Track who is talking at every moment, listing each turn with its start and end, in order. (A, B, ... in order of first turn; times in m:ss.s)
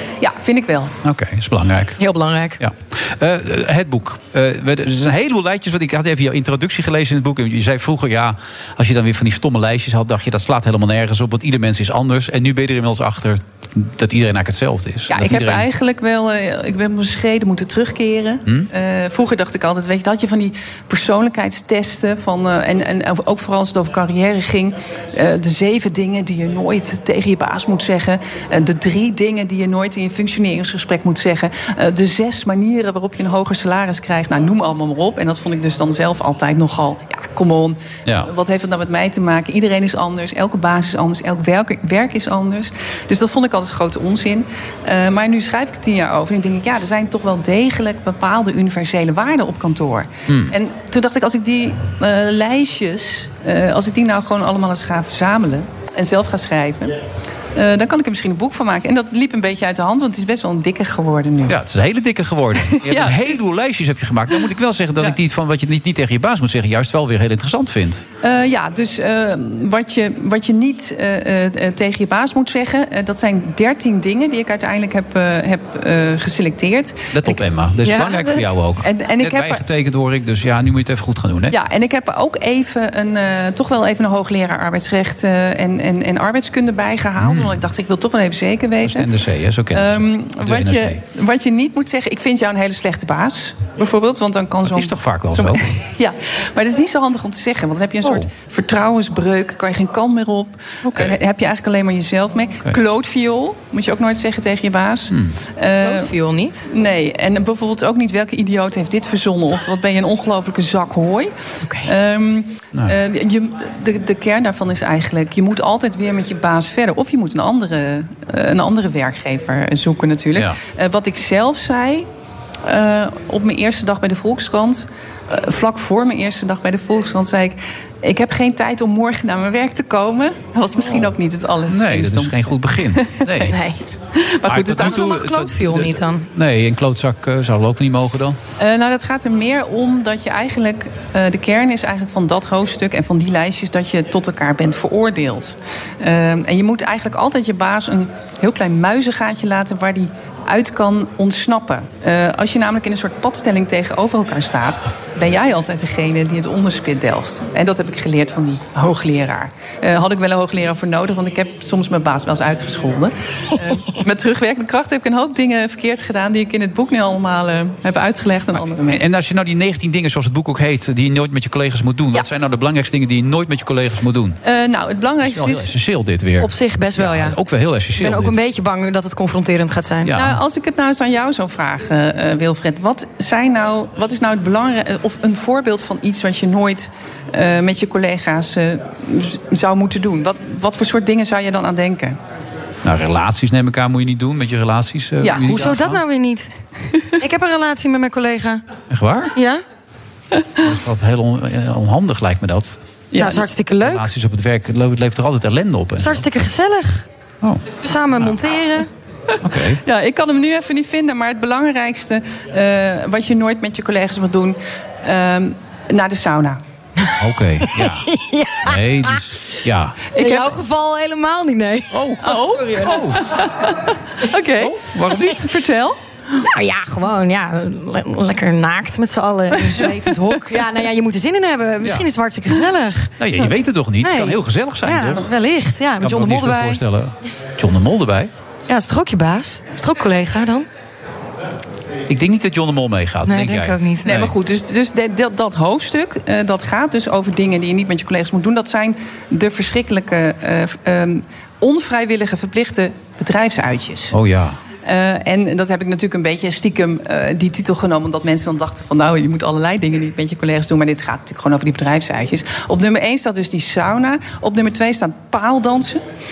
0:00.2-0:01.0 A
0:01.0-0:02.0 B
0:02.0-0:02.6 C
0:02.6-0:15.6 B
0:15.1-0:57.0 A
0:50.3-0:50.5 B
0:57.5-1:01.6 A
1:01.5-1:08.0 B
1:02.6-1:03.4 A
1:08.2-1:17.4 A
1:17.1-1:21.5 B
1:17.8-1:18.4 C
1:18.8-1:19.6 A
1:21.5-1:29.1 A
1:27.2-1:27.6 B
1:28.8-1:31.0 B
1:29.7-1:46.1 A
1:34.6-1:35.6 B
1:38.0-1:38.3 B
1:40.8-1:41.2 B
1:45.1-1:45.4 B
1:45.8-1:46.7 C
1:46.7-2:02.1 A
1:51.6-1:51.9 C
2:02.6-2:15.2 A
2:11.7-2:13.6 B
2:13.5-2:13.8 C
2:14.5-2:18.4 B
2:14.6-2:16.3 C
2:18.6-2:49.0 A
2:48.8-2:54.4 B
2:54.4-2:55.7 A
2:55.2-2:58.4 B
2:56.4-2:57.4 C
2:58.0-3:00.1 C
3:00.0-3:00.4 B
3:00.1-3:12.2 A
3:12.8-3:16.0 B
3:15.2-3:15.7 A
3:15.3-3:16.5 C
3:17.2-3:18.6 C
3:18.9-3:19.3 B
3:19.3-3:19.6 C
3:20.6-3:22.8 B
3:23.1-3:23.5 A
3:23.2-3:24.1 C
3:23.8-3:26.3 B
3:26.0-3:27.0 C
3:27.8-3:28.9 C
3:29.4-3:29.8 B
3:29.5-3:36.6 A
3:37.1-3:39.2 C
3:37.2-3:38.1 B
3:38.6-3:40.0 B
3:40.1-3:40.6 A
3:40.2-3:43.2 C
3:41.9-3:43.2 B
3:42.2-3:46.0 A
3:44.6-3:45.4 B
3:46.4-3:53.1 C
3:49.6-3:50.7 A
3:51.8-3:52.1 B
3:53.2-3:55.3 B
3:54.0-3:56.8 C
3:56.0-3:58.3 B
3:58.7-4:00.7 C
4:02.1-4:04.3 B
4:03.2-4:04.2 C
4:04.0-4:14.2 A
4:14.1-4:14.6 B
4:14.8-4:26.0 A